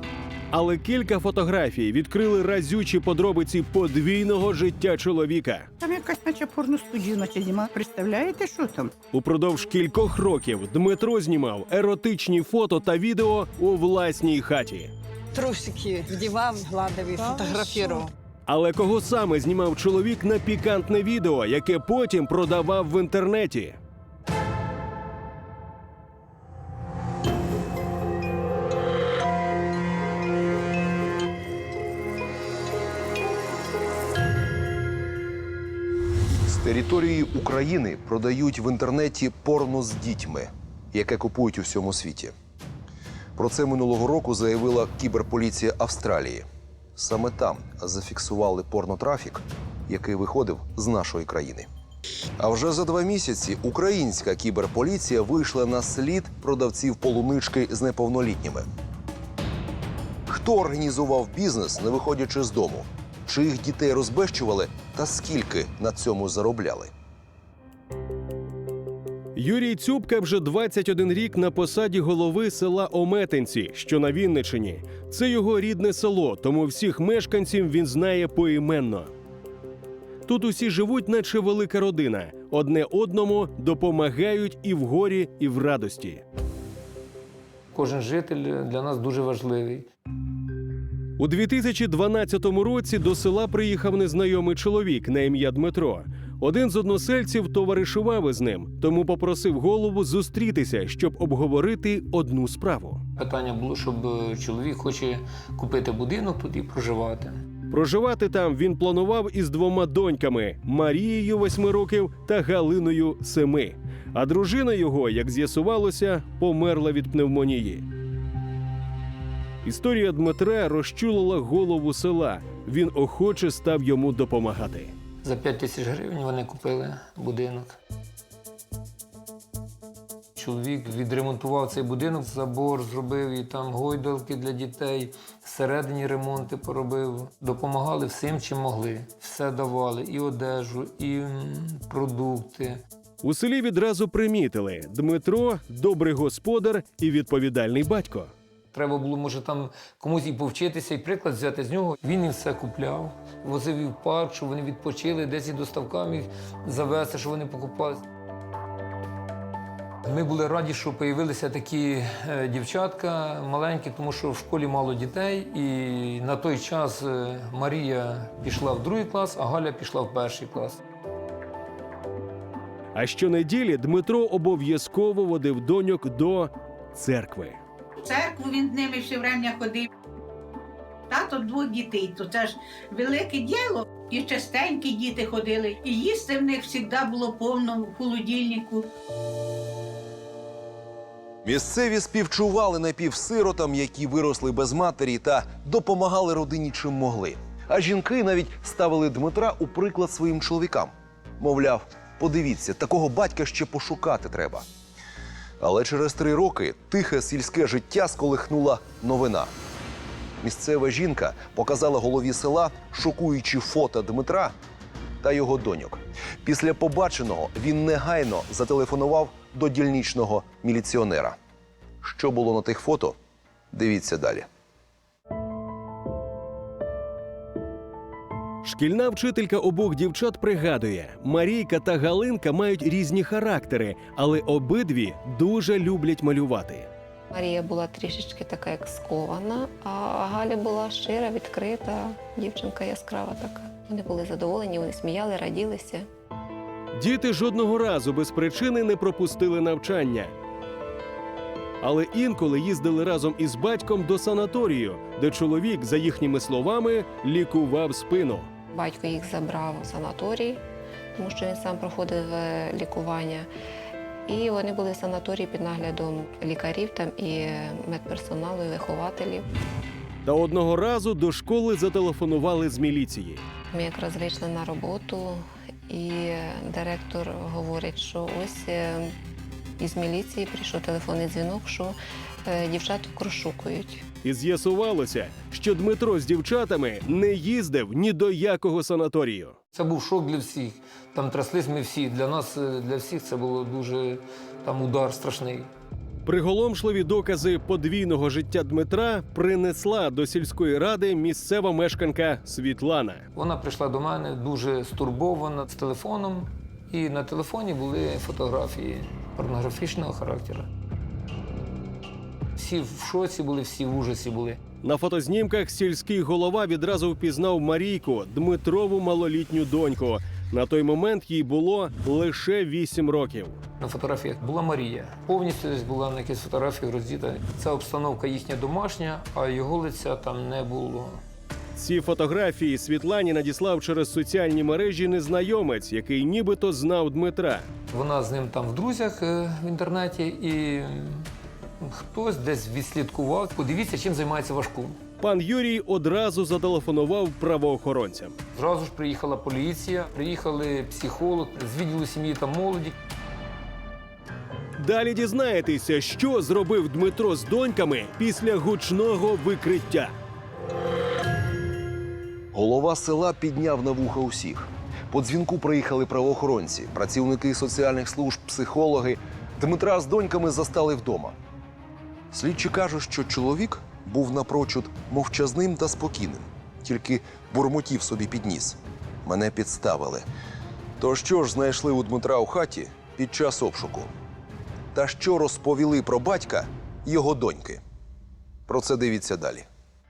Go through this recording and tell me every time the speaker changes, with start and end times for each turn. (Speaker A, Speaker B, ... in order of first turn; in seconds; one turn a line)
Speaker A: 0.5-5.7
Speaker B: 5.8-8.9
Speaker A: 9.1-14.9
Speaker C: 15.3-18.1
Speaker A: 18.5-23.8
Speaker D: 36.5-42.4
Speaker D: 43.4-46.5
Speaker D: 47.0-51.7
Speaker D: 52.4-58.7
Speaker D: 60.3-66.9
Speaker A: 69.4-79.1
Speaker A: 80.3-86.2
Speaker E: 87.7-89.9
Speaker A: 91.2-103.0
Speaker E: 103.2-107.4
Speaker A: 107.7-117.9
Speaker A: 119.6-124.9
Speaker E: 125.2-127.8
Speaker E: 130.4-142.8
Speaker A: 143.2-148.3
Speaker E: 148.7-158.0
Speaker E: 160.0-170.8
Speaker A: 173.0-177.6
Speaker F: 178.0-179.9
Speaker F: 181.1-188.9
Speaker D: 191.4-204.7
Speaker D: 205.6-209.5
Speaker D: 210.4-214.5
Speaker D: 215.2-221.4
Speaker D: 222.0-223.2
Speaker D: 223.7-224.5
Speaker A: 228.6-236.9
Speaker G: 237.3-246.1
Speaker A: 246.9-250.3
Speaker A: 251.8-258.5
Speaker G: 258.7-260.6
Speaker G: 261.2-263.5
Speaker G: 264.3-269.5
Speaker A: 270.3-273.4
Speaker G: 273.7-279.1
Speaker G: 279.8-284.1
Speaker A: 284.2-289.6
Speaker E: 289.7-295.7
Speaker A: 296.2-303.3
Speaker E: 303.4-310.7
Speaker E: 312.6-314.6
Speaker A: 314.8-323.6
Speaker E: 323.8-331.2
Speaker A: 331.8-337.7
Speaker E: 337.9-341.3
Speaker E: 341.8-345.0
Speaker A: 345.2-348.4
Speaker E: 348.6-352.9
Speaker A: 354.8-360.1
Speaker D: 362.5-371.4
Speaker D: 372.3-380.3
Speaker D: 381.0-384.1
Speaker D: 384.9-387.8
Speaker D: 388.7-389.7